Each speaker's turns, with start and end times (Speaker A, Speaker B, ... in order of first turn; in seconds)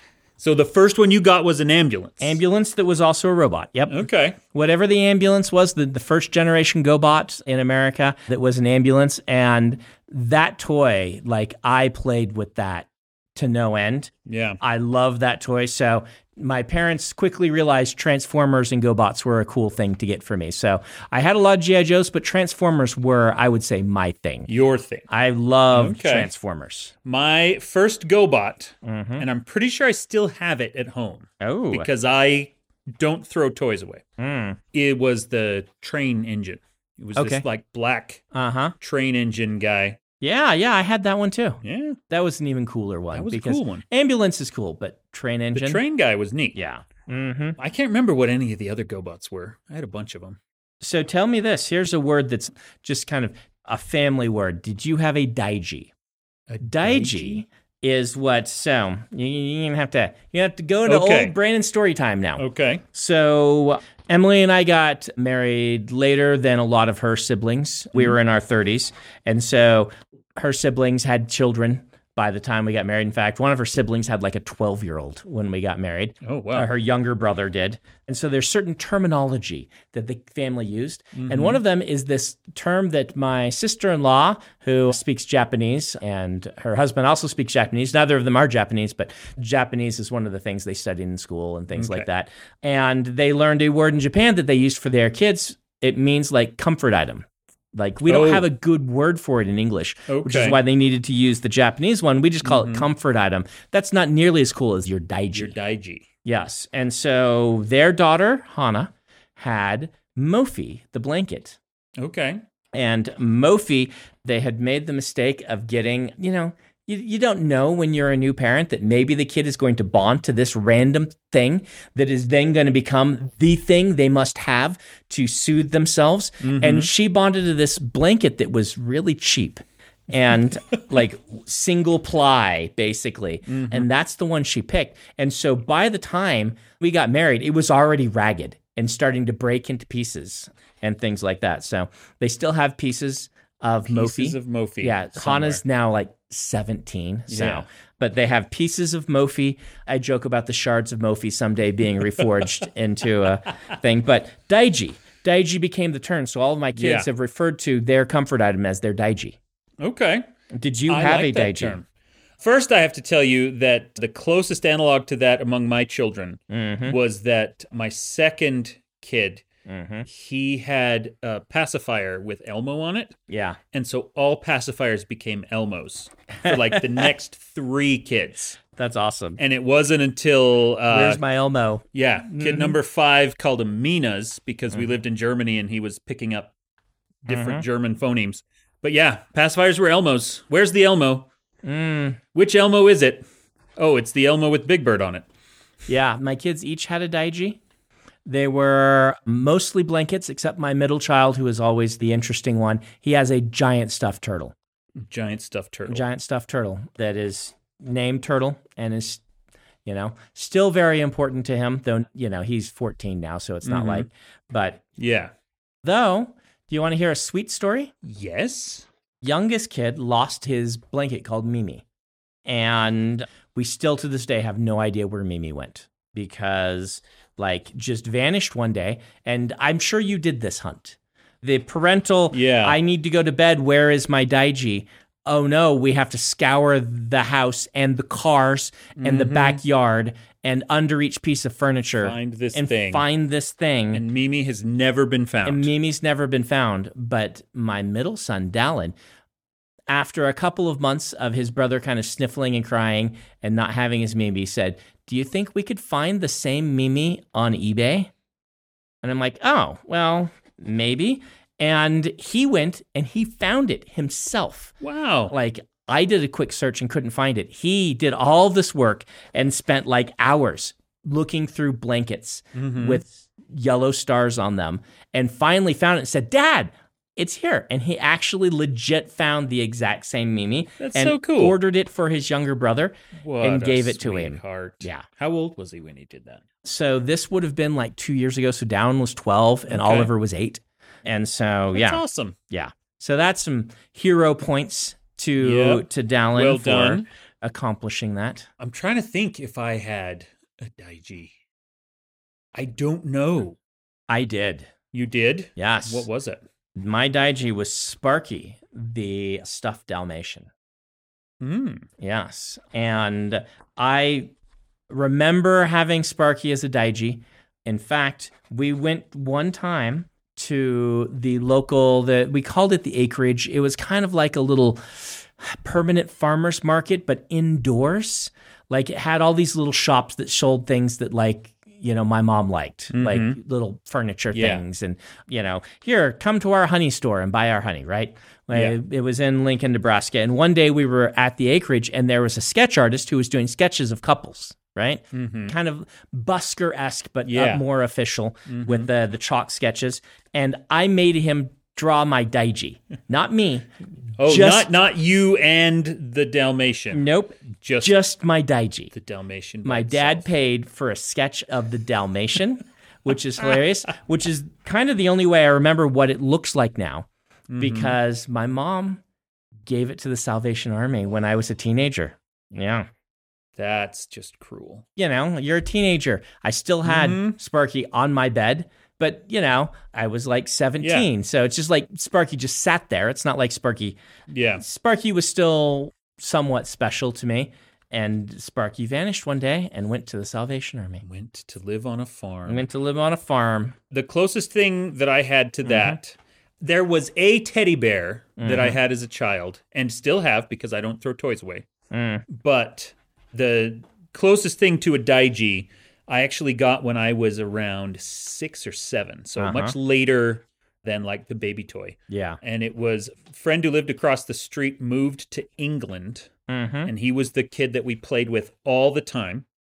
Speaker A: 0.4-2.4, 3.9-4.4, 14.3-14.6, 24.5-25.1, 25.7-26.3, 27.1-34.0, 34.7-38.2, 38.8-40.0, 41.6-42.0, 43.1-43.9, 45.5-46.6, 47.6-50.4, 56.5-57.4, 60.9-61.4, 62.4-62.8, 76.2-76.7, 81.2-81.6, 91.8-92.1, 98.1-98.5, 100.1-100.6, 102.4-102.9, 105.3-106.1, 112.0-112.4, 126.4-126.9, 133.5-133.9, 143.9-145.6, 147.3-147.7, 156.8-157.1, 159.8-160.3, 160.9-161.8, 162.4-169.4, 170.1-173.2, 173.7-178.6, 179.4-181.2, 181.9-186.5, 187.2-191.3, 192.3-193.3, 193.8-195.3, 205.0-206.1, 213.6-214.1, 215.0-215.3, 218.0-218.9, 232.3-232.8, 239.0-239.6, 242.0-243.1, 243.9-245.7, 264.8-265.3, 272.6-273.0, 280.8-281.6, 283.2-286.4, 289.7-290.1, 291.7-292.4, 295.4-297.1, 298.6-301.3, 302.5-303.6, 304.9-306.4, 311.4-311.9, 332.9-333.4, 334.3-334.6, 338.5-338.8, 345.1-345.5, 347.3-347.6, 348.5-348.9, 354.2-358.0, 358.9-360.3, 367.5-368.0, 373.6-374.9, 376.8-377.4, 380.8-381.1, 384.3-384.6, 391.0-392.7, 393.9-401.7, 402.3-416.3, 416.9-419.5
Speaker B: 2.2-24.5, 25.1-26.9, 28.8-29.2, 31.4-31.9, 34.2-34.6, 37.2-37.5, 38.3-38.8, 40.2-45.8, 46.5-47.6, 50.8-55.9, 56.6-105.6, 106.2-111.6, 112.7-159.4, 160.5-161.8, 166.5-167.0, 169.7-170.1, 173.3-173.6, 176.4-176.8, 178.7-179.4, 180.9-182.8, 187.3-187.7, 191.6-192.2, 195.9-197.6, 198.3-204.6, 205.9-209.2, 209.8-214.8, 215.8-217.9, 219.2-221.8, 222.4-244.0, 245.4-248.9, 249.9-258.1, 259.0-264.7, 265.3-285.1, 286.6-298.5, 304.1-304.7, 305.6-306.1, 306.8-310.5, 312.0-314.3, 314.9-354.7, 356.9-358.9, 359.6-367.1, 367.6-369.0, 369.7-372.9, 375.0-384.0, 384.6-391.0, 392.5-393.8, 395.6-396.0, 398.4-398.8, 401.9-402.3, 409.4-409.8, 412.1-412.4, 416.5-416.9